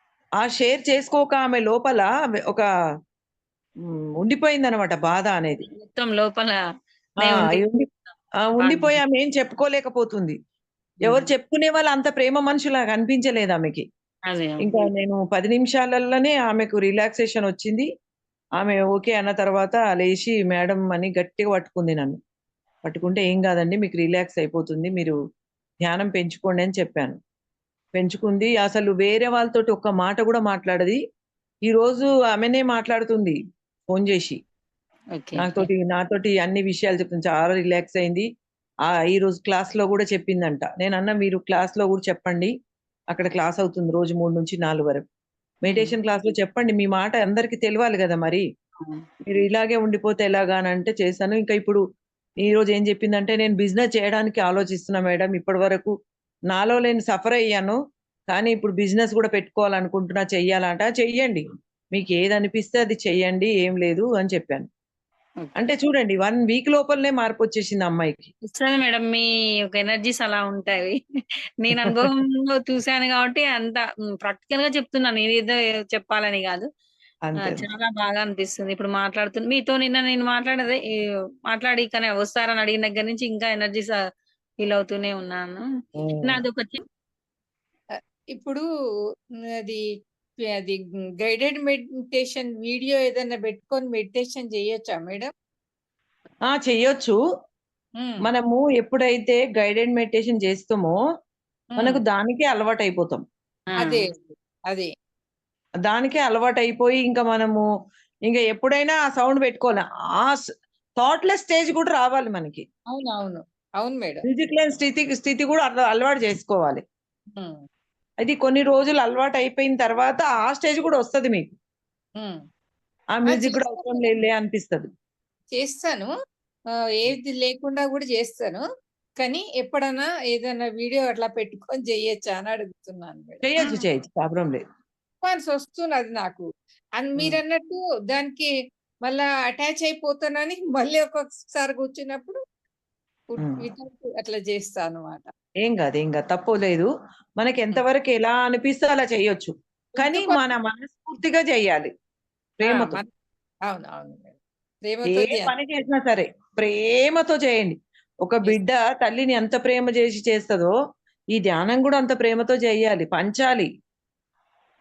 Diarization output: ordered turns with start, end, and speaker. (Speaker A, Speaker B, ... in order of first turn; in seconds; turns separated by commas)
Speaker A: 0.4-2.6, Speaker A: 4.2-5.6, Speaker B: 5.7-6.6, Speaker B: 7.2-7.6, Speaker A: 7.2-7.8, Speaker A: 8.5-10.4, Speaker B: 8.6-9.0, Speaker B: 11.0-11.3, Speaker A: 11.0-13.8, Speaker B: 14.3-14.8, Speaker A: 14.6-17.9, Speaker A: 18.6-22.2, Speaker A: 22.8-25.1, Speaker A: 25.8-27.2, Speaker A: 27.9-31.0, Speaker A: 31.6-33.4, Speaker A: 33.9-34.4, Speaker B: 35.1-35.7, Speaker A: 35.4-38.3, Speaker A: 39.0-42.5, Speaker A: 43.1-45.0, Speaker A: 45.6-48.4, Speaker B: 45.7-46.0, Speaker A: 49.2-51.8, Speaker A: 52.4-55.9, Speaker A: 56.5-57.8, Speaker A: 58.3-61.4, Speaker A: 61.9-64.7, Speaker A: 65.6-68.3, Speaker B: 68.5-71.0, Speaker B: 71.6-76.7, Speaker A: 71.8-72.0, Speaker A: 77.3-77.7, Speaker B: 77.4-80.8, Speaker B: 81.5-84.0, Speaker B: 84.6-85.6, Speaker A: 86.0-86.4, Speaker B: 86.2-86.8, Speaker C: 88.0-88.6, Speaker C: 90.6-95.3, Speaker A: 96.5-97.2, Speaker A: 98.2-101.0, Speaker C: 101.7-102.0, Speaker A: 101.8-103.2, Speaker C: 103.7-104.9, Speaker A: 105.9-107.6, Speaker A: 108.3-110.4, Speaker A: 111.0-112.6, Speaker C: 112.9-114.2, Speaker A: 114.3-116.8, Speaker A: 118.2-121.5, Speaker A: 123.2-124.9, Speaker C: 123.3-124.1, Speaker C: 125.6-126.1, Speaker C: 127.0-128.6, Speaker C: 129.2-133.6, Speaker A: 133.4-134.6, Speaker C: 135.2-136.4, Speaker C: 137.0-138.5, Speaker C: 139.0-142.4, Speaker C: 143.3-145.3, Speaker A: 145.6-146.9, Speaker A: 147.4-151.9, Speaker C: 150.0-150.4, Speaker A: 152.6-153.0, Speaker C: 152.6-153.1, Speaker C: 153.7-155.5, Speaker A: 155.1-157.7, Speaker A: 158.2-160.7, Speaker A: 161.3-163.7